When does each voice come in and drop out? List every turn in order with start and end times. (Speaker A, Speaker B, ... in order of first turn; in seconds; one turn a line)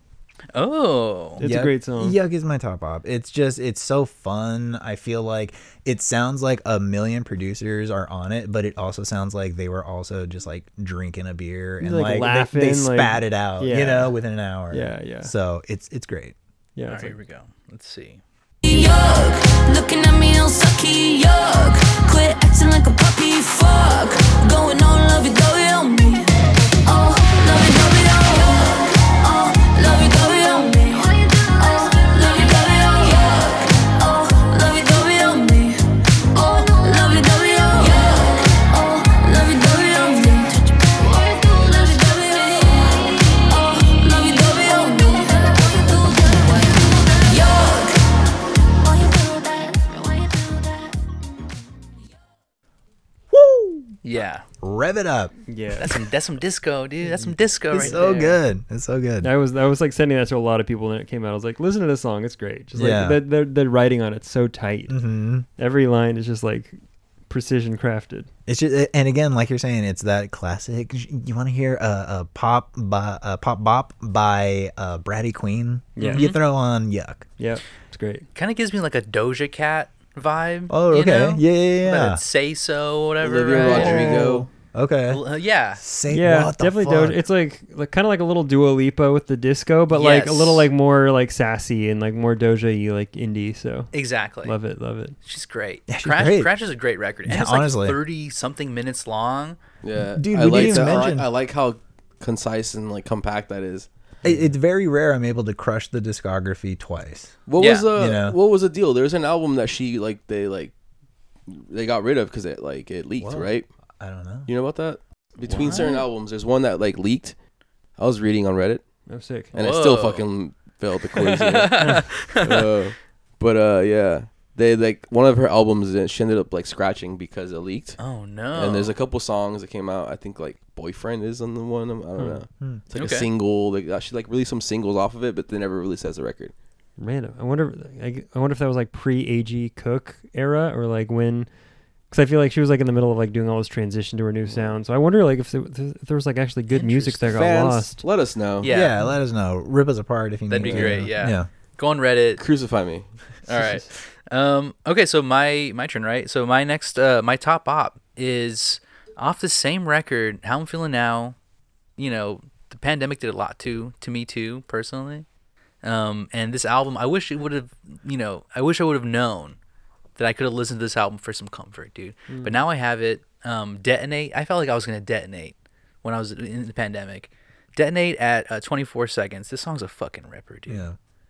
Speaker A: 0.5-1.4
Speaker B: 1.4-2.2
Speaker C: 1.4-16.4
Speaker B: 11.8-14.2
Speaker B: 14.7-15.3
Speaker B: 16.8-17.1
Speaker A: 16.9-18.2
Speaker D: 18.6-26.3
Speaker D: 26.8-35.8
Speaker D: 36.3-48.0
Speaker D: 48.8-51.0
Speaker C: 53.3-53.9
Speaker A: 54.0-54.4
Speaker C: 54.6-55.3
Speaker B: 55.5-55.9
Speaker A: 55.8-58.4
Speaker B: 57.1-58.3
Speaker C: 57.7-59.3
Speaker B: 59.2-65.0
Speaker C: 62.7-63.2
Speaker C: 64.9-65.5
Speaker B: 65.6-66.8
Speaker B: 67.3-68.3
Speaker C: 68.5-77.2
Speaker B: 76.0-76.3
Speaker A: 76.0-76.4
Speaker B: 77.4-78.3
Speaker A: 78.3-84.2
Speaker C: 80.7-82.2
Speaker E: 83.2-84.5
Speaker B: 83.6-84.4
Speaker C: 83.8-85.2
Speaker A: 85.1-85.8
Speaker C: 85.7-87.2
Speaker B: 86.1-93.9
Speaker A: 89.9-90.7
Speaker A: 93.9-94.5
Speaker B: 94.4-95.1
Speaker A: 95.2-99.6
Speaker C: 95.9-96.5
Speaker C: 97.2-98.0
Speaker E: 99.8-103.9
Speaker C: 100.1-101.3
Speaker B: 100.5-101.0
Speaker C: 104.2-107.3
Speaker E: 107.5-110.7
Speaker A: 107.6-107.9
Speaker C: 107.9-108.4
Speaker E: 111.5-113.7
Speaker C: 113.2-114.5
Speaker E: 114.5-117.3
Speaker B: 115.5-115.8
Speaker A: 115.6-116.0
Speaker E: 118.0-118.8
Speaker B: 119.1-119.5
Speaker E: 119.5-128.0
Speaker A: 119.5-120.3
Speaker A: 121.1-122.7
Speaker B: 121.8-122.0
Speaker A: 128.0-128.9
Speaker E: 128.5-136.5
Speaker A: 132.9-133.3
Speaker B: 137.0-141.5
Speaker B: 142.1-148.0
Speaker A: 146.7-147.2
Speaker E: 147.2-148.7
Speaker A: 148.6-149.0
Speaker C: 148.7-151.5
Speaker A: 150.5-152.4
Speaker E: 150.6-151.0
Speaker E: 152.4-153.1
Speaker A: 153.5-161.3
Speaker B: 153.6-153.8
Speaker A: 162.0-165.2
Speaker A: 165.8-169.6
Speaker A: 170.2-180.8
Speaker B: 172.3-172.6
Speaker C: 180.7-181.0